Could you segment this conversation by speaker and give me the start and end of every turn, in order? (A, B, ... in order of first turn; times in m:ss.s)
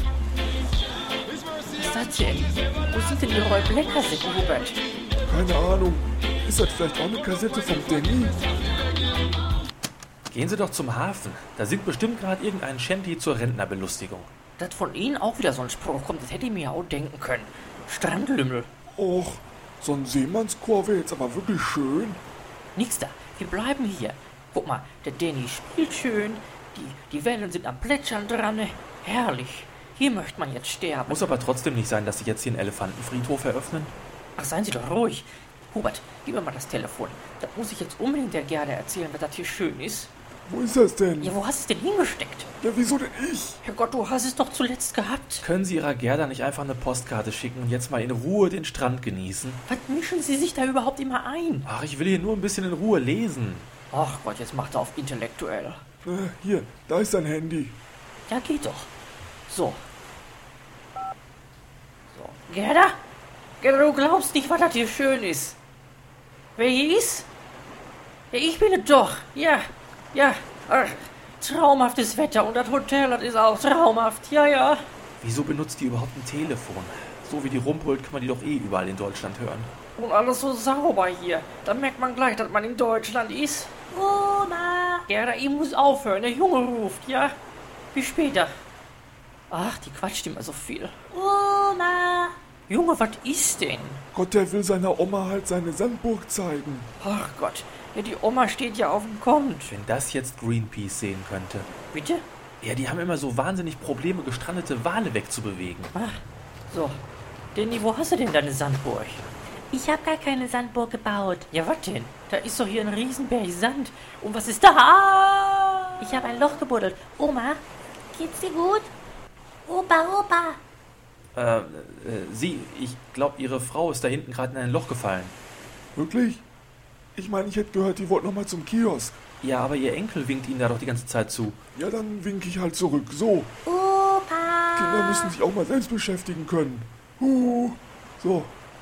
0:01.7-0:04.8 A
0:05.3-0:08.4 B
0:10.3-0:14.3 C
0:14.6-0:18.7 A
0:19.0-0:22.2 B
0:22.8-0:31.3 A
0:31.1-0:33.9 C
0:34.4-0:40.1 A
0:40.5-0:41.4 B
0:41.2-0:42.5 A
0:42.6-0:43.6 B
0:43.6-0:45.5 A
0:45.4-0:49.6 C
0:49.7-0:51.7 A
0:51.7-0:53.7 C
0:53.9-0:55.8 A
0:56.0-0:57.8 B
0:58.3-0:58.9 A
0:59.5-0:59.8 A
1:02.1-1:03.0 A
1:03.6-1:05.6 A
1:06.6-1:07.3 A
1:08.3-1:14.8 A
1:15.2-1:19.7 C
1:20.0-1:23.7 A
1:23.9-1:25.1 D
1:25.1-1:27.4 A
1:27.9-1:28.5 A
1:29.5-1:31.0 A
1:31.1-1:32.4 D
1:32.7-1:34.0 A
1:34.1-1:36.9 B
1:37.0-1:39.7 A
1:39.7-1:41.7 C
1:41.9-1:42.2 A
1:42.6-1:45.9 C
1:45.9-1:47.0 A
1:47.6-1:49.3 A
1:49.7-1:51.5 D
1:51.5-1:56.6 A
1:56.0-1:57.6 D
1:58.1-1:58.9 D
1:59.7-2:00.6 D
2:01.3-2:05.4 C
2:06.0-2:06.4 B
2:07.2-2:09.2 B
2:09.4-2:11.6 C
2:11.8-2:13.5 B
2:13.7-2:15.4 D
2:14.8-2:18.6 B